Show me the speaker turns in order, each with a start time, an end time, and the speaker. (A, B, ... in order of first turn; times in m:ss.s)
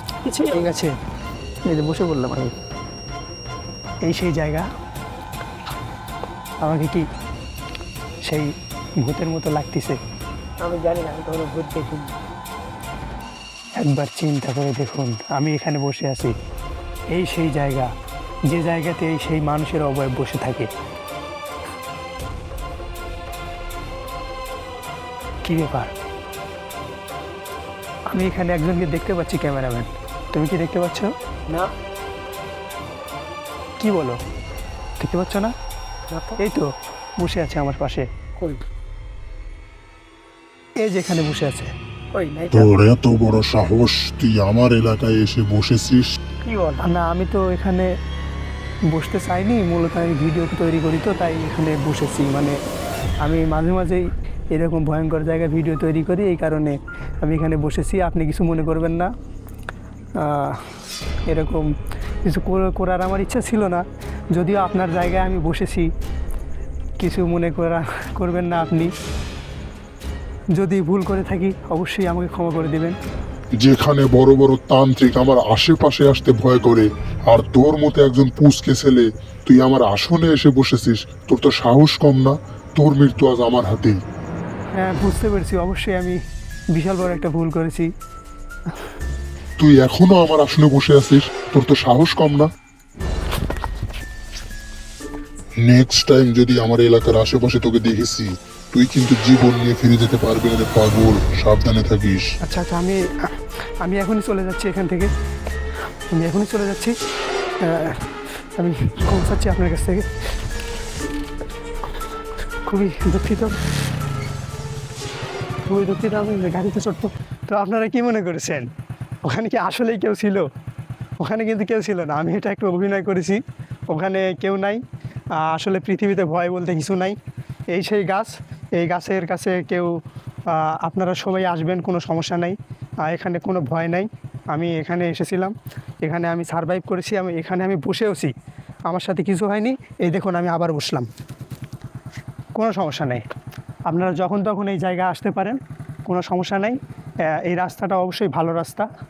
0:00.2-0:00.6 A
0:00.3-0:01.0 B
0:01.6-0:02.5 B
0:04.0-0:04.7 B
0:06.6-0:07.0 B
0:09.0-0:10.0 B
0:10.6-0:12.1 A
0:13.8-0:16.3 B
0:17.1-0:17.9 B
0:18.5-0:20.7 B
0:25.4-0:25.9 B
0:28.1-0:31.1 B
0:31.5-0:31.7 A
0:33.8-0:34.2 B
0:35.0-0:35.5 B
0:36.1-0:36.4 A
0:36.4-0:38.1 B
0:38.4-0:38.6 A
0:40.8-0:41.7 B
0:42.1-0:42.8 A
0:42.5-0:46.1 C
0:46.4-0:46.8 A
0:46.8-0:47.9 B
0:48.9-0:52.6 B
0:53.2-0:59.1 B
1:00.2-1:00.7 B
1:01.3-1:01.7 B
1:02.2-1:05.9 B
1:07.0-1:08.9 B
1:10.5-1:13.0 B
1:13.6-1:24.0 C
1:24.7-1:26.2 B
1:26.7-1:27.9 B
1:29.6-1:32.5 C
1:35.6-1:42.2 C
1:42.4-1:45.1 B
1:46.1-1:47.0 B
1:47.6-1:50.1 B
1:52.7-1:53.6 B
1:55.7-1:58.7 B
1:59.2-2:00.5 B
2:01.2-2:04.8 B
2:05.4-2:07.2 B
2:07.7-2:10.0 B
2:10.5-2:18.3 B
2:18.9-2:21.1 B
2:22.5-2:23.2 B
2:23.9-2:28.9 B